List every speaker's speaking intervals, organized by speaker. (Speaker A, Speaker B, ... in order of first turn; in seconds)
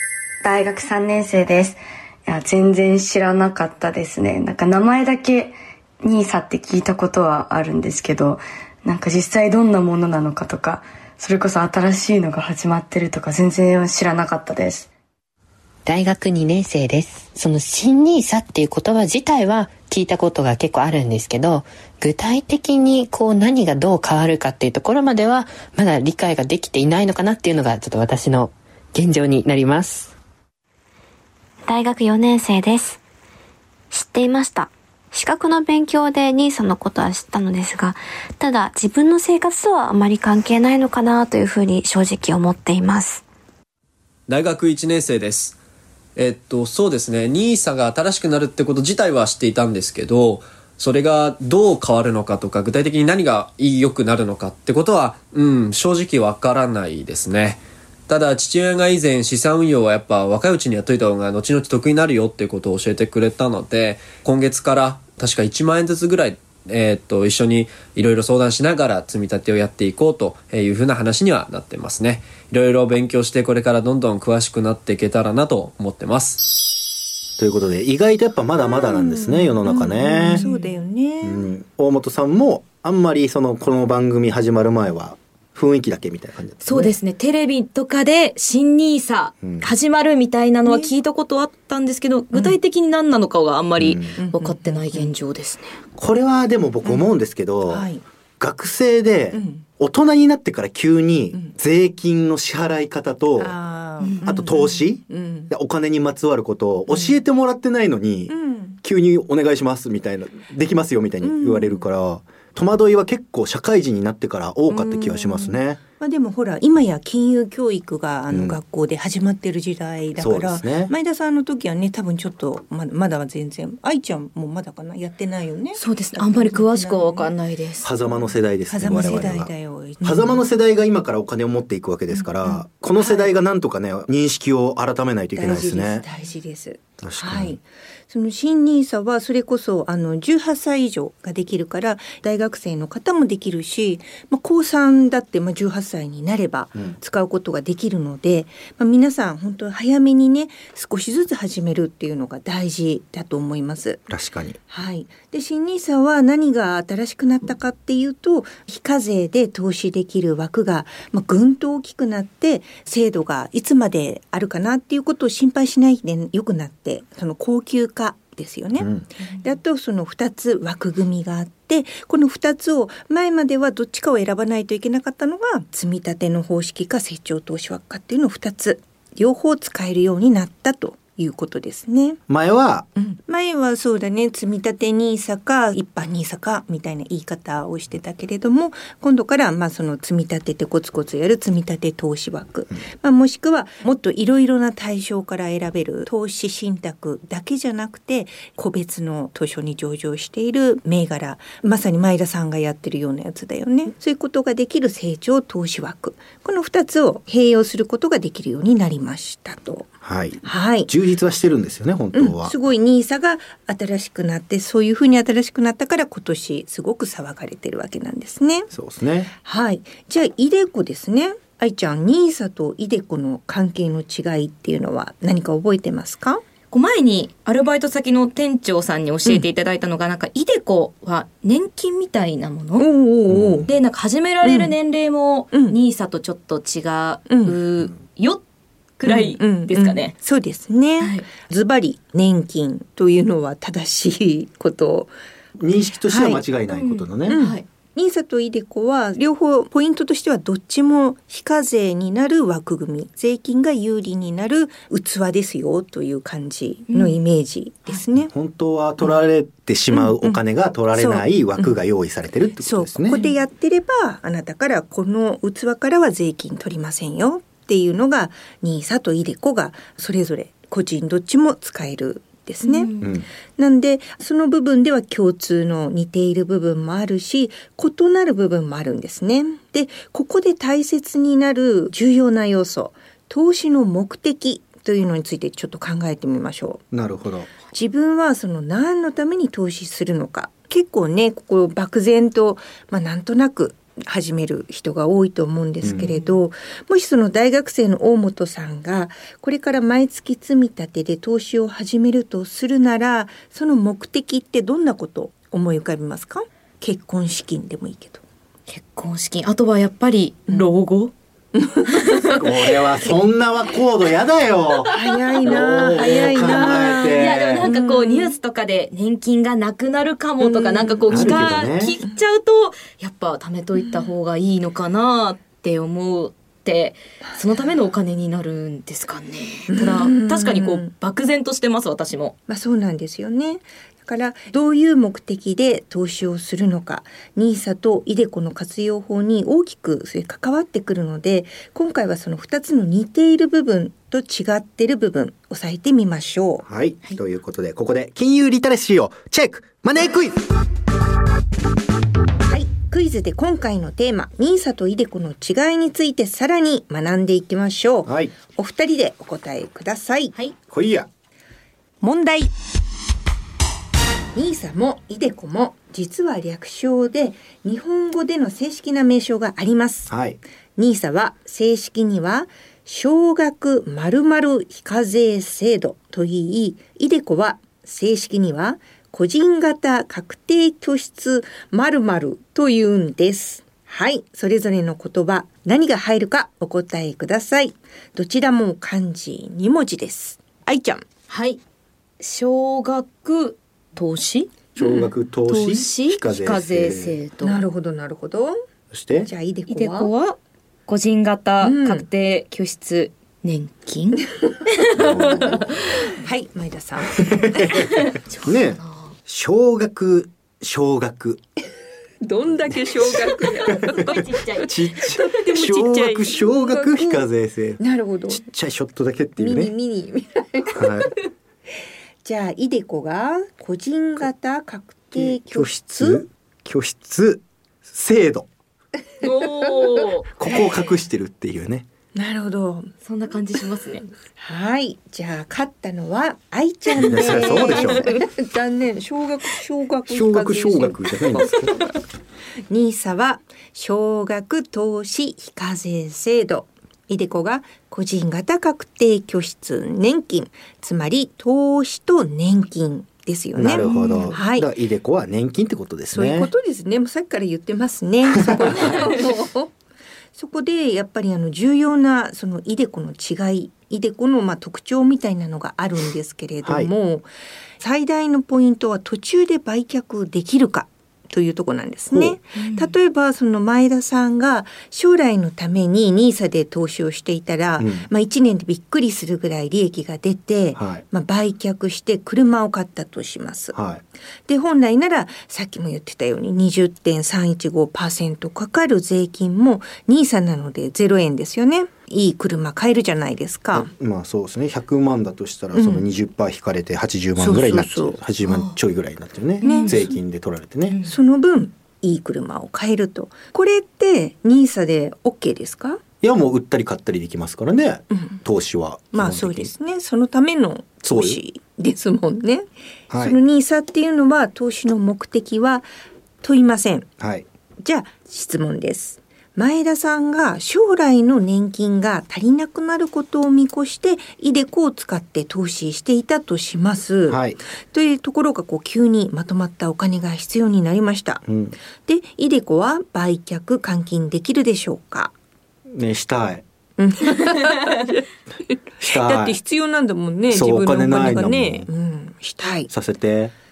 Speaker A: 0.4-14.9
Speaker B: 15.8-30.1
Speaker C: 31.6-33.0, 33.9-43.2
Speaker D: 44.3-45.6, 46.1-76.6
Speaker E: 77.4-80.4, 81.2-86.9, 89.4-89.7, 93.8-94.1, 96.0-97.9, 98.4-103.5, 104.2-115.8, 118.3-118.6, 120.2-120.9, 127.8-136.0, 137.0-137.6, 154.1-154.6, 168.8-169.0, 182.3-182.9, 210.0-212.6, 218.7-219.3, 233.3-233.7, 245.6-247.4, 258.2-263.2, 273.0-273.3, 286.9-287.5, 295.8-296.1, 312.3-317.7, 321.1-321.9, 346.6-350.4, 358.1-358.3, 360.7-361.1, 370.1-370.4, 394.8-397.2, 398.9-399.3, 404.9-405.7, 407.4-407.9, 408.4-411.4, 413.8-419.7, 420.7-421.1, 425.1-428.5, 430.4-431.9, 437.0-438.1, 440.1-441.8, 453.5-456.5, 458.3-458.9, 466.6-466.9, 472.1-472.4, 477.8-478.1, 480.8-481.0, 483.7-484.0, 493.7-501.0, 506.2-509.7, 511.0-511.4, 513.1-513.4, 517.2-517.5, 527.3-527.6, 531.5-531.8, 535.9-536.6, 539.0-539.6, 540.5-541.9, 542.9-543.5
Speaker F: 78.7-81.5, 94.2-95.1, 97.7-98.0, 99.3-99.7, 103.4-105.5, 106.9-107.2, 108.3-108.8, 111.2-111.8, 114.7-127.3, 128.7-130.4, 132.1-133.3, 135.3-154.0, 154.7-182.2, 182.9-209.9, 210.4-210.9, 212.1-218.7, 219.4-226.4, 232.8-233.7, 234.4-234.7, 237.3-237.6, 239.1-245.1, 246.1-246.4, 247.3-258.3, 259.9-260.4, 260.9-261.8, 262.6-272.9, 273.6-286.8, 287.7-308.2, 311.5-312.4, 314.9-317.1, 317.6-318.3, 320.4-321.4, 327.3-327.7, 329.7-330.9, 332.5-346.6, 352.5-360.4, 362.0-362.5, 364.3-370.1, 370.8-391.0, 397.4-398.6, 399.2-400.1, 401.6-402.0, 406.2-407.7, 412.2-414.2, 415.1-417.3, 417.8-418.4, 419.4-421.1, 422.2-426.2, 432.1-432.9, 434.4-441.9, 442.7-454.7, 456.1-459.7, 460.3-467.3, 467.8-483.8, 484.5-493.9, 495.7-496.0, 497.4-498.2, 499.6-500.2, 501.0-506.0, 508.1-508.4, 509.1-515.9, 516.4-517.1, 517.8-531.4, 532.0-535.3, 537.0-542.9
Speaker G: 80.3-80.7, 86.6-95.8, 125.8-127.9, 226.7-232.9, 233.7-238.4, 239.0-240.1, 241.0-241.2, 246.7-247.6, 256.9-257.2, 272.6-273.1, 308.7-311.1, 314.9-332.3, 391.3-391.6, 392.2-397.6, 399.7-405.6, 408.3-409.1, 413.4-414.8, 429.2-430.3, 433.0-434.0, 453.8-454.4, 472.6-472.9, 498.4-498.7, 499.6-500.0, 500.9-501.1